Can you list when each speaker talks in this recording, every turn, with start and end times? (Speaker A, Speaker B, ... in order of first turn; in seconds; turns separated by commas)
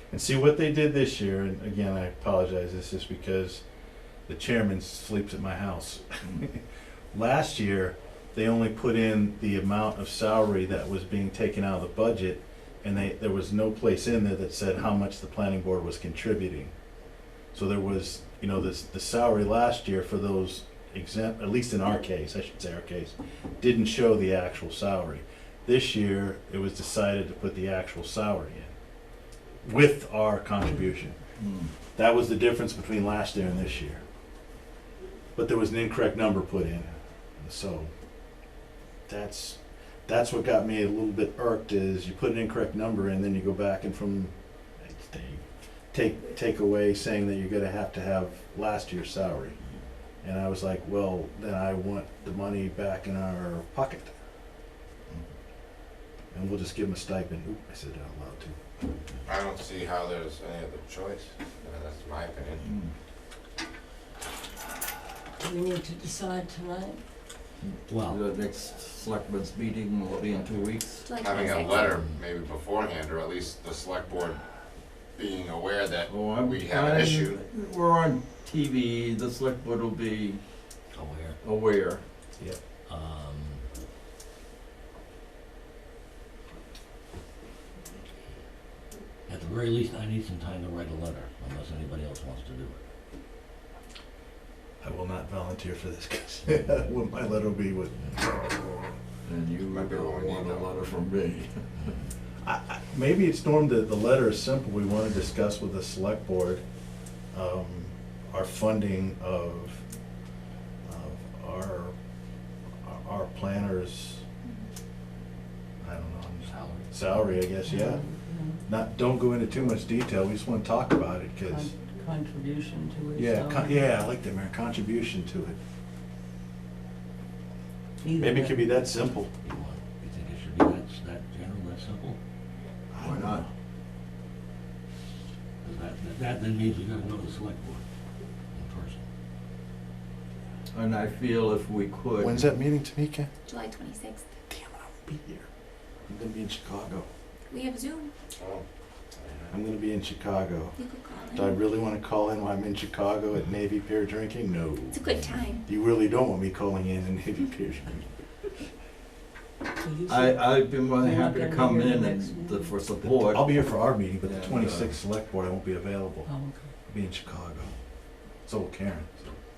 Speaker A: 0.1-3.6, Speaker A: 4.3-6.6, Speaker A: 7.1-16.7, Speaker A: 17.5-28.7, Speaker A: 29.6-31.1, Speaker B: 31.4-31.7, Speaker A: 31.9-34.0, Speaker A: 35.4-37.9, Speaker A: 39.1-49.6, Speaker A: 50.2-54.1, Speaker A: 56.3-58.5, Speaker C: 59.2-62.7, Speaker B: 62.6-62.9, Speaker D: 65.4-67.0, Speaker B: 67.6-71.1, Speaker E: 67.9-68.2, Speaker F: 71.0-71.8, Speaker C: 71.2-74.4, Speaker E: 71.3-72.2, Speaker C: 75.2-77.4, Speaker B: 76.1-80.4, Speaker E: 80.9-81.4, Speaker B: 81.4-82.0, Speaker E: 82.8-83.6, Speaker E: 89.3-92.8, Speaker A: 94.8-98.5, Speaker B: 99.2-101.9, Speaker C: 99.7-100.7, Speaker A: 102.4-106.6, Speaker A: 107.3-109.8, Speaker A: 110.8-111.9, Speaker A: 112.8-114.2, Speaker A: 115.8-118.0, Speaker E: 116.5-116.9, Speaker D: 117.6-118.6, Speaker A: 118.7-121.7, Speaker D: 121.4-123.8, Speaker A: 123.1-125.6, Speaker D: 128.0-128.8, Speaker A: 128.2-129.3, Speaker E: 129.4-132.2, Speaker A: 132.9-133.5, Speaker B: 133.0-133.4, Speaker E: 135.6-137.8, Speaker E: 138.5-139.0, Speaker B: 140.7-142.4, Speaker A: 142.2-143.3, Speaker F: 143.5-144.2, Speaker A: 144.5-145.5, Speaker A: 146.1-147.1, Speaker F: 147.5-148.1, Speaker C: 148.4-148.6, Speaker A: 149.5-150.8, Speaker F: 150.8-151.6, Speaker A: 151.3-155.1, Speaker F: 154.9-155.6, Speaker A: 155.7-158.1, Speaker D: 159.8-162.7, Speaker B: 160.1-163.5, Speaker A: 163.2-166.3, Speaker B: 164.2-164.9, Speaker D: 166.2-166.7, Speaker A: 166.9-167.7, Speaker A: 168.4-169.2